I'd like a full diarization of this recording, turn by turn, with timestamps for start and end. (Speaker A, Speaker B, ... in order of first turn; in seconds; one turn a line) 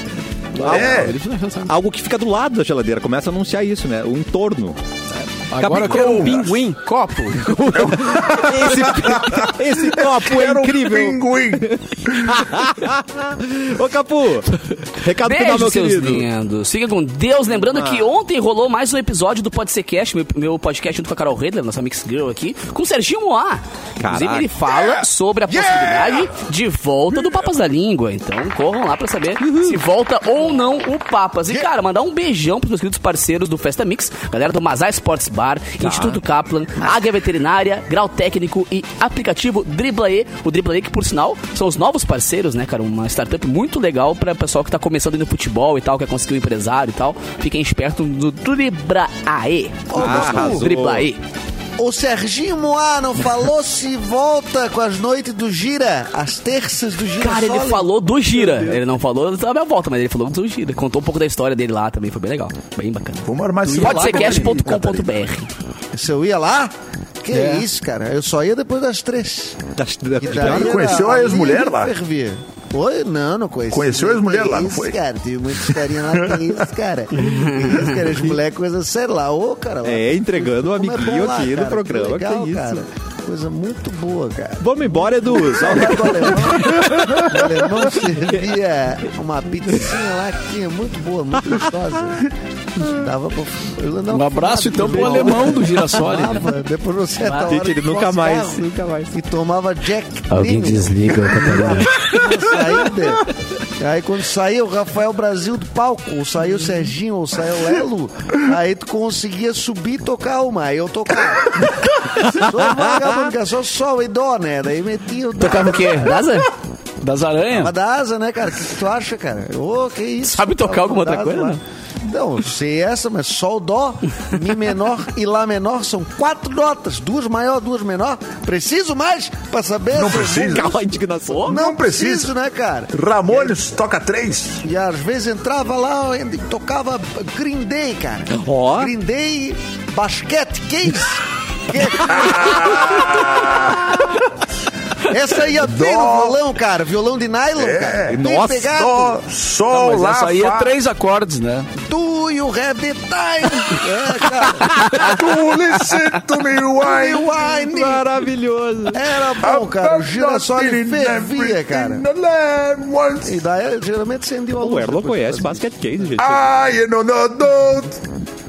Speaker A: 0.5-1.7
Speaker B: 0.6-1.1
Speaker C: 0.6-1.2
Speaker B: 1.6-6.3
Speaker D: 5.5-6.9
Speaker A: 5.6-8.0
Speaker C: 5.9-6.5
Speaker B: 7.4-16.2
Speaker C: 7.7-12.4
Speaker A: 15.2-51.2
Speaker B: 17.6-18.1
Speaker B: 24.0-24.5
Speaker C: 25.5-26.3
Speaker B: 29.4-29.8
Speaker B: 35.8-36.2
Speaker E: 49.9-50.7
Speaker B: 49.9-51.1
Speaker E: 51.8-58.7
Speaker A: 57.2-65.5
Speaker C: 63.2-65.1
Speaker D: 63.6-64.8
Speaker E: 65.9-69.6
Speaker D: 67.3-67.7
Speaker B: 69.8-71.0
Speaker E: 70.2-116.3
Speaker C: 70.3-71.9
Speaker C: 73.7-75.0
Speaker A: 77.2-77.9
Speaker B: 79.8-82.8
Speaker B: 84.6-87.7
Speaker D: 94.1-96.5
Speaker B: 95.0-95.2
Speaker B: 97.3-99.1
Speaker A: 100.3-102.0
Speaker D: 101.1-101.8
Speaker B: 112.2-113.1
Speaker A: 115.4-116.5
Speaker D: 117.0-117.7
Speaker E: 117.5-130.8
Speaker A: 120.2-121.6
Speaker C: 129.9-130.8
Speaker B: 130.5-131.5
Speaker C: 131.4-132.3
Speaker E: 131.4-133.6
Speaker C: 132.9-134.6
Speaker E: 134.6-143.1
Speaker B: 138.3-138.9
Speaker C: 142.1-143.9
Speaker E: 145.1-149.2
Speaker C: 145.3-146.4
Speaker C: 147.6-150.7
Speaker B: 148.1-148.7
Speaker D: 149.7-151.7
Speaker E: 151.8-154.9
Speaker C: 154.9-157.3
Speaker E: 156.8-158.1
Speaker B: 157.6-159.0
Speaker E: 158.9-162.0
Speaker C: 159.4-163.4
Speaker E: 163.2-165.6
Speaker B: 164.6-166.5
Speaker C: 166.2-168.0